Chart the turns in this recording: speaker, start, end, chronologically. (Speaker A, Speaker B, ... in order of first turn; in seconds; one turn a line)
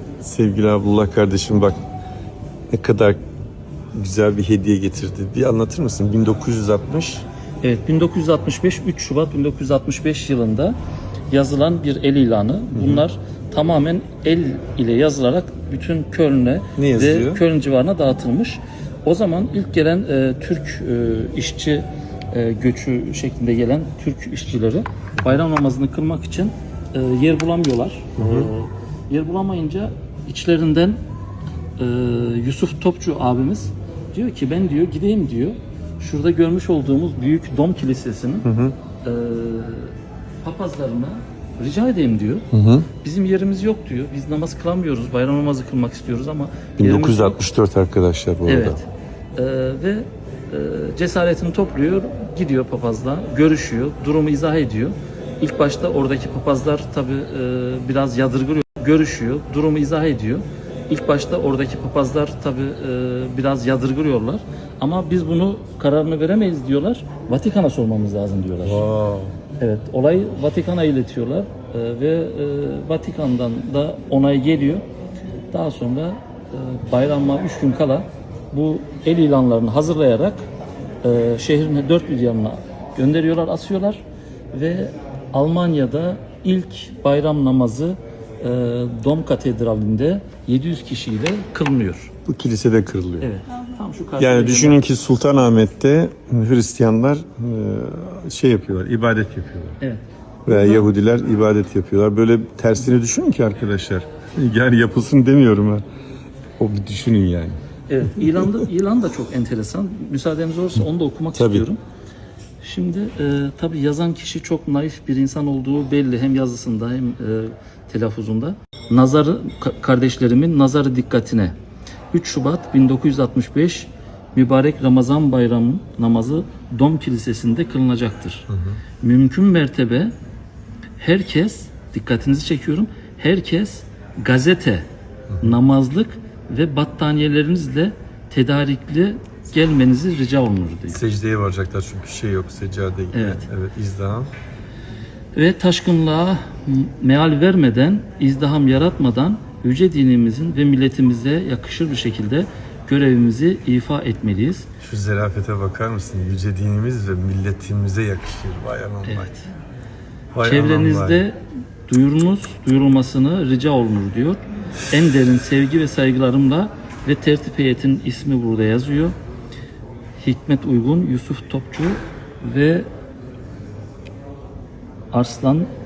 Speaker A: 0.2-1.8
Speaker A: 2.7-3.2
Speaker A: 3.9-7.2
Speaker B: 7.6-10.8
Speaker B: 11.3-31.0
Speaker A: 12.7-13.0
Speaker A: 16.8-17.4
Speaker A: 28.2-28.5
Speaker B: 31.8-38.5
Speaker A: 38.4-38.7
Speaker B: 39.0-42.5
Speaker A: 42.5-42.9
Speaker B: 43.0-47.4
Speaker A: 46.8-48.8
Speaker B: 48.5-48.8
Speaker B: 49.4-68.8
Speaker A: 68.6-69.3
Speaker B: 69.6-74.8
Speaker B: 75.5-80.4
Speaker B: 81.0-84.0
Speaker B: 84.5-92.1
Speaker A: 92.2-93.3
Speaker B: 93.2-94.8
Speaker A: 94.2-99.8
Speaker B: 99.8-100.8
Speaker A: 100.5-105.8
Speaker A: 106.6-107.6
Speaker B: 107.9-111.8
Speaker A: 111.3-111.7
Speaker B: 112.6-121.5
Speaker B: 122.1-128.5
Speaker A: 128.5-128.8
Speaker B: 129.0-130.1
Speaker B: 131.0-134.8
Speaker A: 135.3-135.6
Speaker B: 135.4-141.0
Speaker A: 140.9-144.3
Speaker B: 143.1-143.5
Speaker B: 145.3-154.7
Speaker A: 154.8-159.3
Speaker B: 159.0-159.4
Speaker A: 160.3-161.2
Speaker B: 160.4-161.3
Speaker B: 161.9-169.1
Speaker B: 170.2-172.9
Speaker B: 175.1-175.7